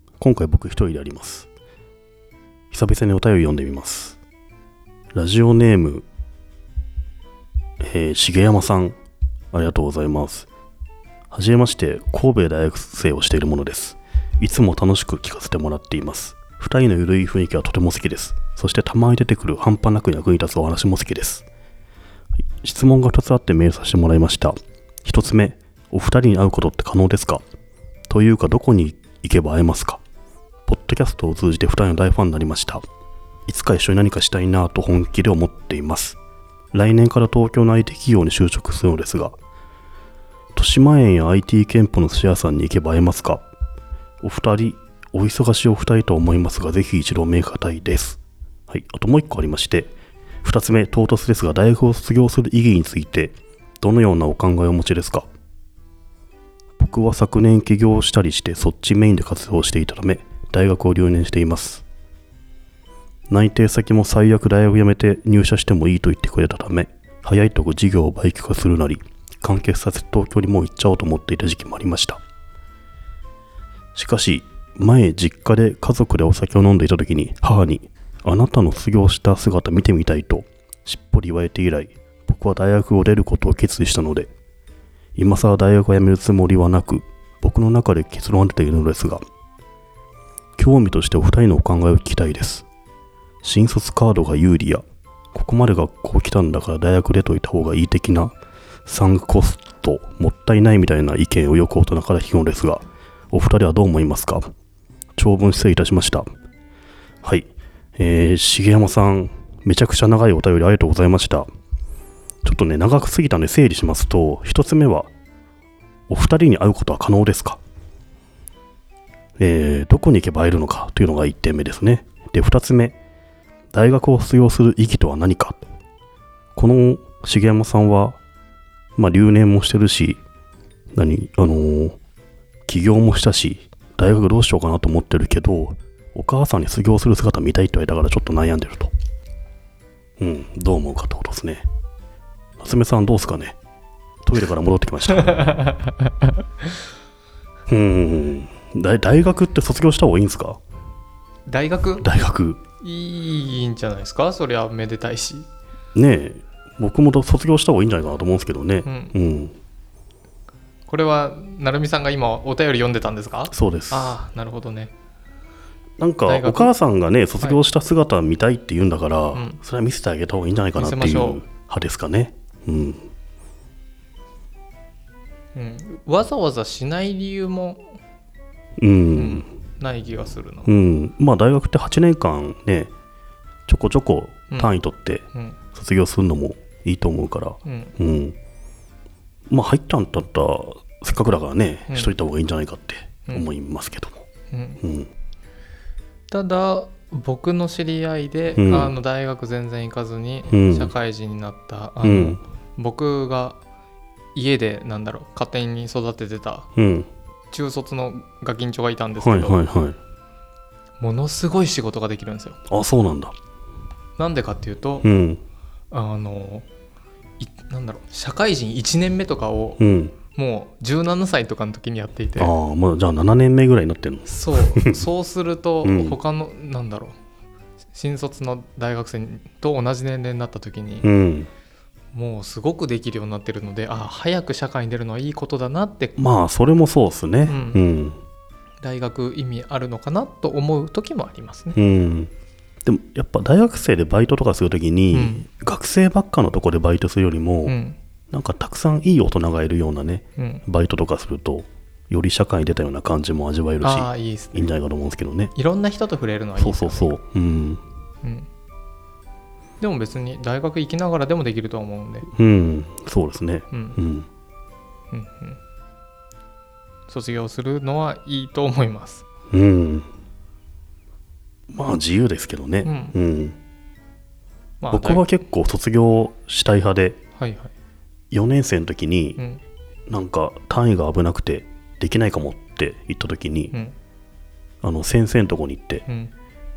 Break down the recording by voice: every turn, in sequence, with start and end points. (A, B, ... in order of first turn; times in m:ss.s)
0:00.2-0:01.5 A
0:02.7-0:04.2 A
0:05.1-0:06.0 A
0:07.8-0:09.0 A
0:09.5-0:10.5 A
0:11.3-0:21.4 A
0:22.6-0:27.4 A
0:28.1-0:30.0 A
0:30.7-0:32.8 A
0:33.5-0:36.2 A
0:36.7-0:39.4 A
0:40.5-0:43.4 A
0:44.2-0:49.9 A
0:50.4-0:55.3 A
0:56.8-1:01.8 A
1:03.3-1:12.2 A
1:13.9-1:24.3 A
1:25.2-1:29.2 A
1:30.6-1:32.6 A
1:33.4-1:38.3 A
1:38.8-1:44.5 A
1:45.2-1:46.3 A
1:47.2-1:51.5 A
1:52.4-1:55.1 A
1:56.1-1:57.6 A
1:59.4-2:03.0 A
2:03.7-2:05.6 A
2:06.5-2:08.2 A
2:09.0-2:10.2 A
2:10.9-2:12.0 A
2:12.7-2:18.9 A
2:20.2-2:21.6 A
2:22.6-2:23.6 A
2:24.2-2:25.6 A
2:25.3-2:26.3 B
2:27.7-2:30.6 A
2:31.5-2:32.0 B
2:32.0-2:32.6 A
2:32.8-2:35.5 B
2:35.9-2:39.5 A
2:38.8-2:39.1 B
2:40.9-2:44.9 B
2:43.5-2:44.2 A
2:46.0-2:53.1 A
2:46.2-2:46.7 B
2:49.3-2:49.6 B
2:50.8-2:51.4 B
2:55.5-2:58.0 B
2:58.8-2:59.5 A
2:59.1-3:00.7 B
3:00.6-3:02.9 A
3:03.7-3:08.3 A
3:07.6-3:07.9 B
3:09.5-3:14.3 A
3:11.9-3:12.1 B
3:14.5-3:14.8 B
3:14.8-3:15.1 A
3:16.3-3:23.6 B
3:18.6-3:18.9 A
3:20.5-3:20.9 A
3:22.0-3:22.4 A
3:24.3-3:26.7 B
3:26.8-3:27.1 A
3:27.5-3:29.6 B
3:29.2-3:30.0 A
3:31.0-3:32.6 B
3:32.7-3:33.3 A
3:34.2-3:35.1 B
3:35.0-3:35.4 A
3:35.9-3:36.7 B
3:37.4-3:39.8 B
3:39.8-3:40.2 A
3:40.3-3:42.5 B
3:42.4-3:45.0 A
3:44.2-3:47.2 B
3:45.8-3:46.2 A
3:47.9-3:51.1 B
3:51.0-3:51.5 A
3:52.1-3:56.2 B
3:56.2-3:58.2 A
3:57.5-3:57.8 B
3:58.8-4:01.8 B
4:01.7-4:02.3 A
4:02.8-4:07.7 A
4:05.1-4:05.4 B
4:07.6-4:08.0 B
4:08.3-4:15.5 A
4:10.4-4:10.6 B
4:13.8-4:14.7 B
4:15.5-4:17.1 B
4:16.6-4:17.8 A
4:18.2-4:18.5 B
4:19.8-4:22.3 B
4:22.3-4:24.3 A
4:23.7-4:24.0 B
4:25.1-4:25.6 B
4:27.1-4:29.2 B
4:29.5-4:30.1 A
4:31.7-4:33.6 A
4:32.8-4:33.2 B
4:34.8-4:35.2 B
4:34.9-4:37.2 A
4:37.4-4:37.7 B
4:38.3-4:39.4 A
4:40.1-4:43.7 A
4:44.8-4:46.0 A
4:46.0-4:46.3 B